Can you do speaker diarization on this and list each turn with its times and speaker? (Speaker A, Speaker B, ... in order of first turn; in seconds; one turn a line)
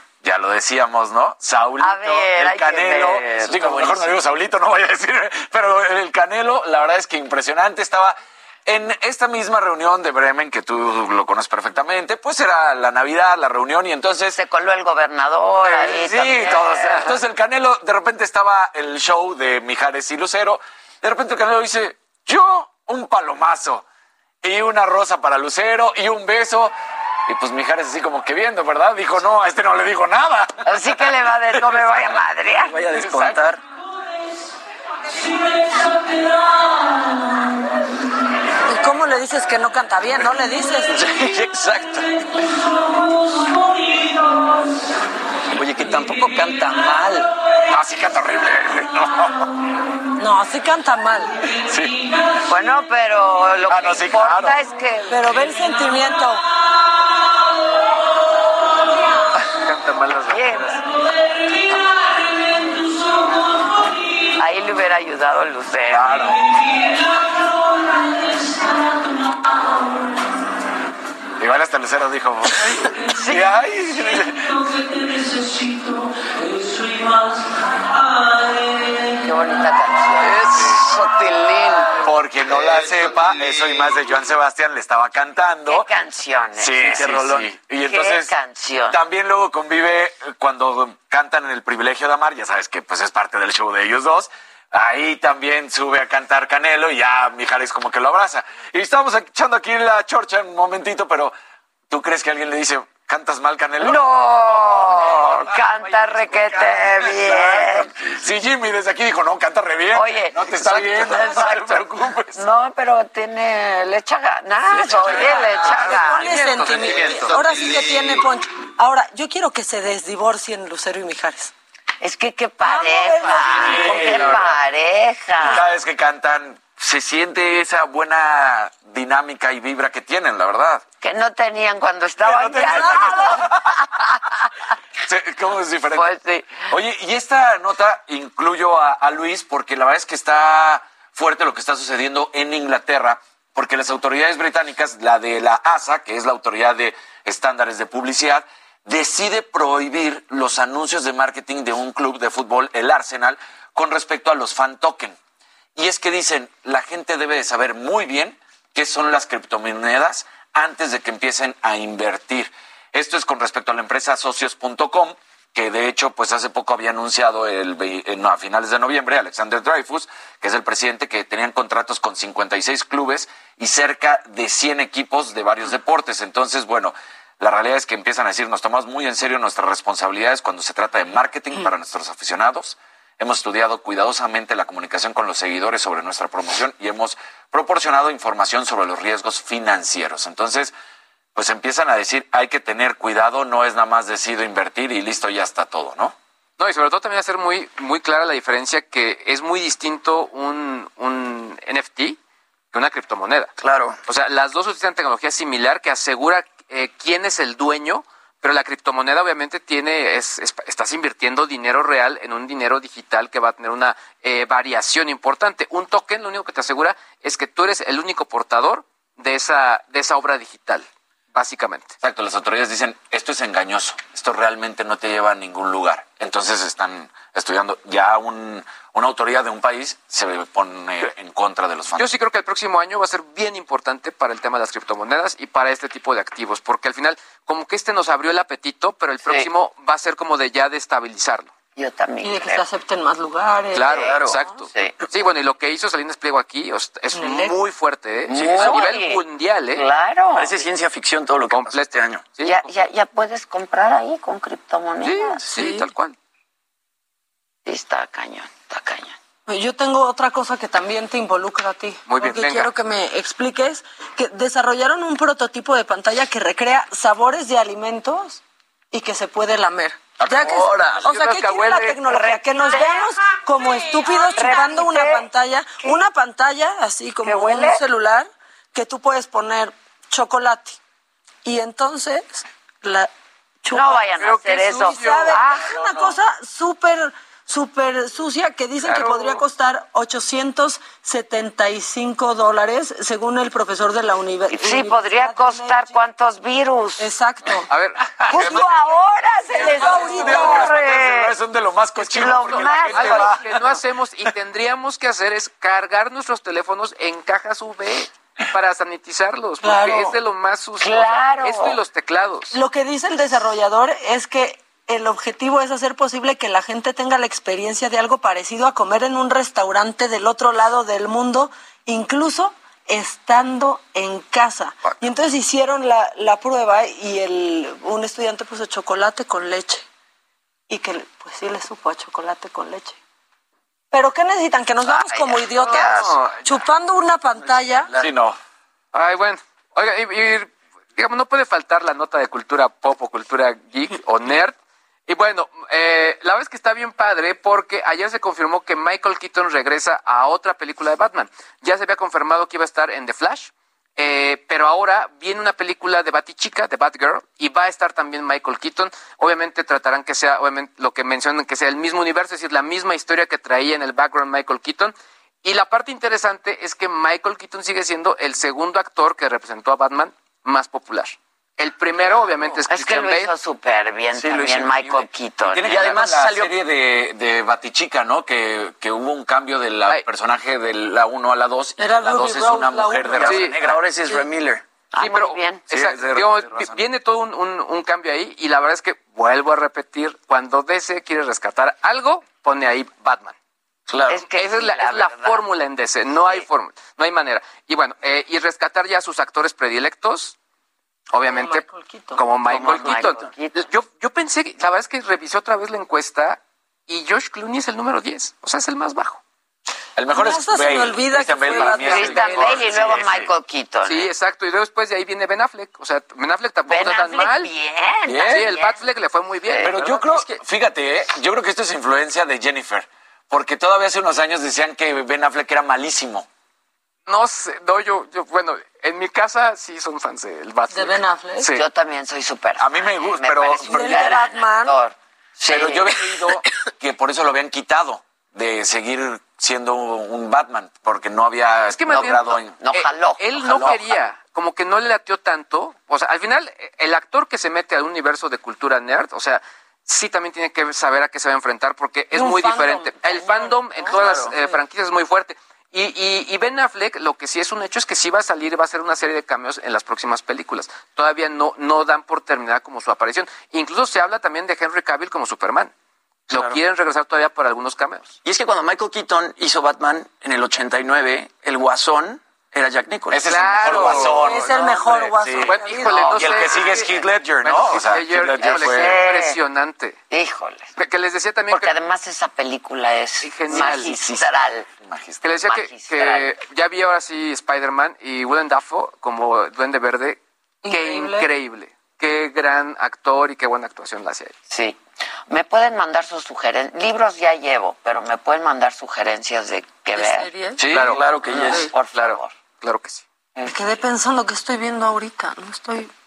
Speaker A: 0.2-14.4
Speaker B: 1.8-3.7
Speaker C: 3.4-4.1
Speaker B: 14.3-17.2
Speaker A: 15.6-23.8
Speaker A: 24.4-26.7
Speaker A: 27.3-30.9
Speaker B: 30.6-33.3
Speaker A: 31.5-32.1
Speaker C: 32.7-33.6
Speaker A: 33.0-33.3
Speaker D: 38.6-41.0
Speaker C: 41.0-42.2
Speaker C: 45.5-47.3
Speaker A: 47.7-49.4
Speaker D: 50.2-51.4
Speaker A: 51.6-52.0
Speaker B: 52.5-55.2
Speaker A: 53.7-54.6
Speaker D: 55.1-56.4
Speaker E: 59.5-60.8
Speaker B: 60.3-60.8
Speaker B: 64.4-66.2
Speaker A: 65.9-66.5
Speaker A: 71.4-74.5
Speaker B: 79.2-80.6
Speaker A: 80.4-85.9
Speaker B: 85.7-89.0
Speaker A: 86.5-88.3
Speaker A: 88.9-101.3
Speaker A: 101.9-104.0
Speaker B: 103.8-107.9
Speaker A: 104.9-112.4
Speaker B: 109.9-116.3
Speaker A: 115.0-115.4
Speaker E: 115.2-117.6
Speaker D: 115.7-121.5
Speaker B: 122.0-125.7
Speaker D: 122.6-124.2
Speaker A: 123.5-124.6
Speaker A: 125.4-130.8
Speaker B: 131.0-134.1
Speaker A: 132.2-133.7
Speaker A: 135.1-136.1
Speaker B: 135.9-136.7
Speaker A: 136.7-155.2
Speaker A: 155.8-190.7
Speaker A: 191.3-196.1
Speaker E: 196.6-202.2
Speaker E: 202.7-203.5
Speaker C: 203.6-204.0
Speaker E: 204.0-221.9
Speaker A: 222.0-232.2
Speaker E: 231.9-241.5
Speaker B: 241.8-242.7
Speaker D: 242.2-244.7
Speaker E: 243.7-249.8
Speaker B: 243.9-244.9
Speaker C: 244.1-244.3
Speaker D: 247.1-247.6
Speaker B: 248.3-250.6
Speaker C: 250.3-252.2
Speaker E: 251.5-252.7
Speaker B: 252.4-255.4
Speaker E: 255.0-256.1
Speaker D: 255.5-255.9
Speaker B: 257.6-259.1
Speaker D: 259.5-268.4
Speaker E: 262.1-262.7
Speaker D: 268.9-280.8
Speaker E: 270.3-272.8
Speaker C: 270.6-271.0
Speaker B: 272.1-273.1
Speaker B: 274.1-275.3
Speaker B: 277.2-277.8
Speaker D: 281.4-283.1
Speaker D: 283.6-284.1
Speaker B: 283.7-285.7
Speaker E: 284.1-286.0
Speaker D: 284.8-296.0
Speaker E: 288.8-289.4
Speaker B: 294.5-297.1
Speaker D: 297.0-297.7
Speaker E: 297.7-298.0
Speaker A: 298.0-298.9
Speaker B: 298.3-301.3
Speaker A: 299.6-303.8
Speaker D: 299.6-300.7
Speaker B: 302.1-303.4
Speaker E: 302.1-312.5
Speaker D: 309.6-310.1
Speaker B: 310.8-311.8
Speaker D: 312.5-329.8
Speaker D: 330.7-333.0
Speaker D: 333.9-337.9
Speaker B: 334.9-336.2
Speaker E: 335.6-336.4
Speaker A: 338.0-338.4
Speaker E: 338.9-344.6
Speaker E: 345.1-373.3
Speaker B: 372.7-376.3
Speaker A: 374.2-374.7
Speaker A: 375.5-383.8
Speaker E: 375.6-376.4
Speaker D: 381.8-383.4
Speaker E: 383.2-383.6
Speaker C: 383.6-384.6
Speaker B: 384.9-385.7
Speaker E: 385.0-393.4
Speaker A: 385.7-386.9
Speaker C: 393.9-394.2
Speaker B: 394.1-395.5
Speaker E: 394.2-400.3
Speaker E: 401.1-401.6
Speaker D: 401.2-402.3
Speaker E: 402.1-409.2
Speaker B: 402.5-403.7
Speaker A: 409.9-413.3
Speaker D: 410.1-412.5
Speaker B: 411.8-414.1
Speaker E: 413.8-417.5
Speaker B: 416.6-418.9
Speaker A: 418.1-418.5
Speaker E: 418.3-420.4
Speaker B: 419.5-419.8
Speaker A: 419.6-426.3
Speaker E: 427.1-431.6
Speaker D: 430.7-431.5
Speaker B: 431.5-435.9
Speaker A: 432.6-434.0
Speaker D: 433.6-434.8
Speaker A: 435.4-442.6
Speaker E: 441.7-465.7
Speaker B: 441.9-443.8
Speaker A: 443.4-443.9
Speaker D: 452.1-454.6
Speaker E: 466.3-468.2
Speaker C: 468.2-473.2
Speaker A: 473.1-479.0
Speaker E: 473.2-474.7
Speaker D: 474.2-476.3
Speaker E: 475.4-480.0
Speaker B: 478.4-479.4
Speaker B: 480.1-480.7
Speaker E: 480.8-481.8
Speaker B: 481.5-484.7
Speaker E: 483.2-484.0
Speaker A: 483.5-484.3
Speaker A: 484.8-485.4
Speaker E: 485.2-494.3
Speaker B: 485.5-486.3
Speaker D: 490.6-491.3
Speaker B: 494.5-500.3
Speaker D: 499.9-500.7
Speaker C: 500.6-501.6
Speaker E: 500.6-503.0
Speaker B: 501.2-502.3
Speaker B: 503.4-503.8
Speaker D: 503.5-505.9